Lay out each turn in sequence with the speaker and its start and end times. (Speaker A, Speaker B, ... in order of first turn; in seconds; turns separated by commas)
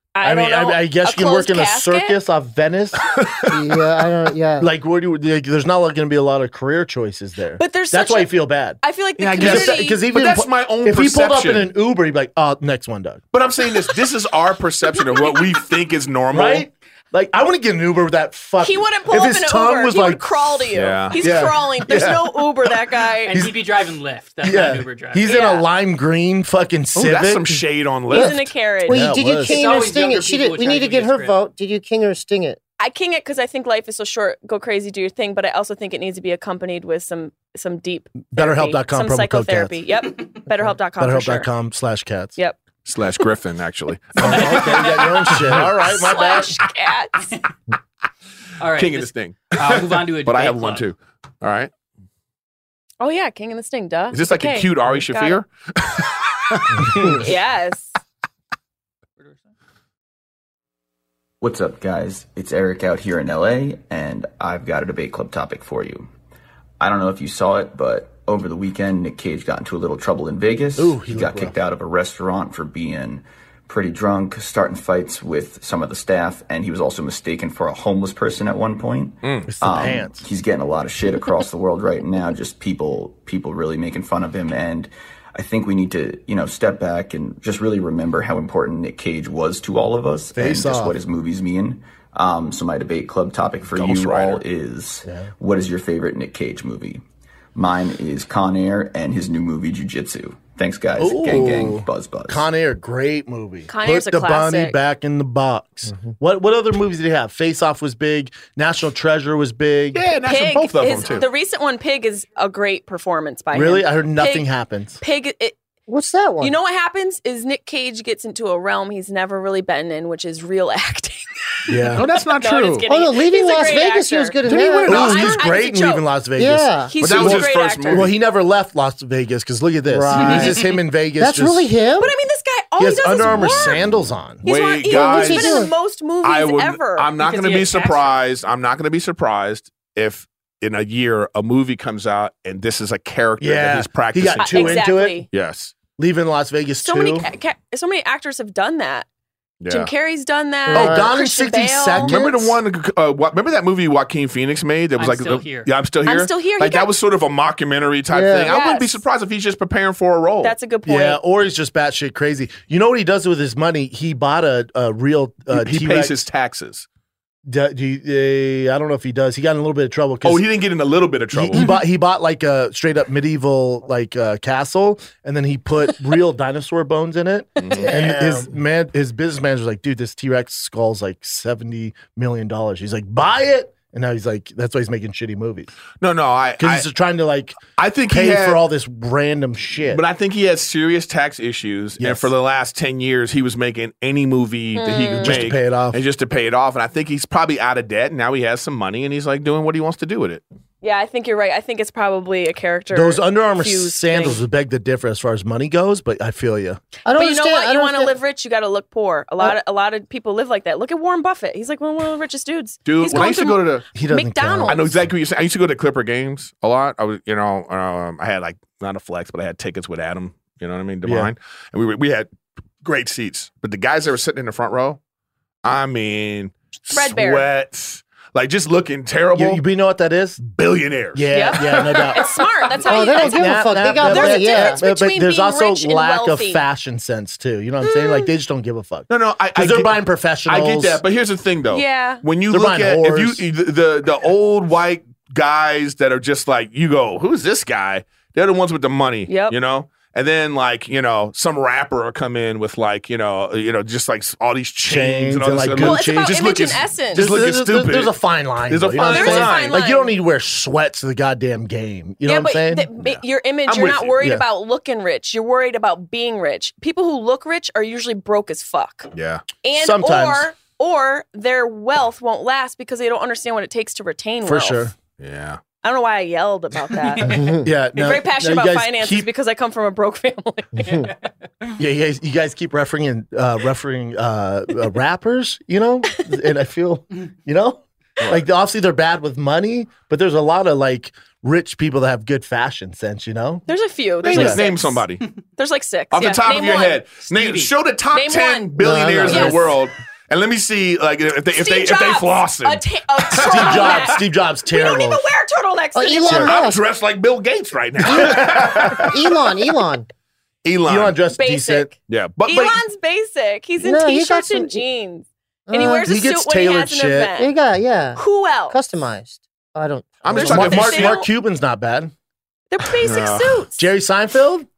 Speaker A: 0.1-2.2, Speaker B: 0.2-3.0, Speaker C: 3.1-3.4, Speaker D: 3.5-4.7, Speaker B: 4.6-8.8, Speaker A: 7.6-10.0, Speaker C: 9.2-11.7, Speaker B: 9.3-13.2, Speaker C: 13.3-16.7, Speaker A: 15.0-15.5, Speaker B: 16.3-22.2, Speaker A: 18.6-23.4, Speaker C: 20.7-22.1, Speaker E: 23.2-25.3, Speaker B: 24.4-27.6, Speaker A: 25.2-25.6, Speaker C: 26.9-28.4, Speaker A: 28.1-29.1, Speaker D: 28.9-32.6, Speaker B: 28.9-29.6, Speaker E: 29.4-31.4, Speaker A: 32.8-41.5, Speaker B: 38.3-39.8, Speaker B: 41.0-42.4, Speaker C: 42.8-45.6, Speaker B: 44.2-46.5, Speaker E: 44.2-45.2, Speaker A: 45.8-47.1, Speaker E: 48.6-50.9, Speaker C: 48.7-51.7, Speaker A: 53.0-55.4, Speaker C: 54.1-57.1, Speaker A: 57.0-57.9, Speaker E: 59.2-59.5, Speaker F: 61.4-66.1, Speaker F: 66.8-97.0, Speaker B: 70.8-71.6, Speaker C: 79.2-79.5, Speaker B: 79.5-80.2, Speaker B: 90.3-91.0, Speaker C: 93.6-94.4, Speaker B: 95.0-95.3, Speaker F: 97.5-102.5, Speaker B: 101.0-110.0, Speaker A: 103.7-104.8, Speaker C: 109.9-111.2, Speaker A: 110.2-114.5, Speaker B: 113.5-115.0, Speaker A: 115.0-115.6, Speaker D: 115.9-116.5, Speaker A: 116.4-121.3, Speaker B: 121.7-122.0, Speaker C: 121.9-122.8, Speaker A: 122.4-126.0, Speaker D: 122.9-125.1, Speaker C: 124.5-125.3, Speaker B: 124.8-131.7, Speaker D: 126.4-126.9, Speaker A: 126.9-128.1, Speaker C: 127.0-128.1, Speaker D: 129.9-130.6, Speaker E: 130.2-130.6, Speaker D: 131.2-132.1, Speaker A: 132.0-133.8, Speaker B: 132.8-134.4, Speaker A: 134.4-137.1, Speaker C: 134.4-135.7, Speaker D: 134.9-135.7, Speaker C: 136.2-145.7, Speaker E: 137.2-138.1, Speaker B: 143.4-145.2, Speaker A: 144.4-145.3, Speaker B: 146.0-147.3, Speaker A: 146.8-149.1, Speaker C: 149.6-149.9, Speaker A: 149.7-152.2, Speaker D: 150.7-151.1, Speaker B: 150.7-152.6, Speaker C: 152.0-160.5, Speaker E: 155.0-155.7, Speaker A: 156.0-156.9, Speaker D: 158.1-158.5, Speaker A: 158.5-159.0, Speaker A: 160.4-161.2, Speaker B: 160.8-166.2, Speaker C: 165.5-166.9, Speaker B: 167.4-170.4, Speaker C: 170.2-171.7, Speaker B: 171.3-185.7, Speaker C: 177.6-178.4, Speaker C: 186.0-186.8, Speaker B: 186.6-190.0, Speaker C: 187.8-188.6, Speaker C: 189.9-200.4, Speaker B: 192.0-192.3, Speaker A: 194.8-195.4, Speaker B: 195.2-196.0, Speaker A: 200.8-204.4, Speaker B: 202.9-206.8, Speaker D: 207.1-208.1, Speaker A: 207.1-214.9, Speaker C: 212.9-213.8, Speaker B: 213.9-215.0, Speaker C: 214.7-222.3, Speaker B: 221.0-221.3, Speaker C: 222.8-225.0, Speaker C: 225.6-229.6, Speaker A: 226.9-227.4, Speaker B: 229.3-230.4, Speaker C: 230.4-231.9, Speaker B: 231.1-232.2, Speaker A: 231.3-236.6, Speaker B: 232.8-241.0, Speaker D: 232.8-234.8, Speaker A: 237.8-238.3, Speaker C: 239.1-239.9, Speaker C: 240.4-258.1, Speaker A: 241.7-242.2, Speaker B: 242.5-243.4, Speaker A: 249.3-249.6, Speaker B: 254.8-256.4, Speaker A: 255.8-257.3, Speaker B: 257.1-262.9, Speaker C: 258.7-259.8, Speaker A: 259.0-260.1, Speaker A: 262.2-269.1, Speaker C: 263.0-264.1, Speaker C: 269.1-269.4, Speaker A: 269.6-274.9, Speaker B: 269.7-270.5, Speaker B: 274.4-274.9, Speaker C: 275.2-275.6, Speaker A: 275.8-277.4, Speaker E: 277.2-277.5, Speaker D: 277.3-277.6, Speaker B: 277.6-279.3, Speaker A: 277.9-281.1, Speaker E: 280.9-281.7, Speaker B: 281.8-293.6, Speaker A: 293.7-295.0, Speaker C: 294.2-295.2, Speaker B: 294.3-294.6, Speaker A: 295.6-297.0, Speaker C: 296.1-304.1, Speaker E: 297.2-297.7, Speaker A: 298.1-298.7, Speaker D: 298.8-299.7, Speaker A: 299.3-299.6, Speaker A: 301.5-306.6, Speaker B: 303.3-305.2, Speaker D: 305.9-306.8, Speaker C: 306.4-309.1, Speaker D: 308.0-310.1, Speaker B: 308.1-309.0, Speaker C: 310.6-311.1, Speaker B: 310.9-311.9, Speaker A: 311.3-311.9, Speaker C: 312.1-312.8, Speaker A: 312.4-317.5, Speaker D: 313.8-314.8, Speaker D: 315.7-316.1, Speaker B: 315.8-317.3, Speaker D: 317.4-320.8, Speaker A: 318.1-318.8, Speaker C: 320.2-321.2, Speaker B: 320.3-322.1, Speaker A: 320.4-321.3, Speaker A: 322.7-323.8, Speaker C: 323.0-323.6, Speaker B: 323.8-324.7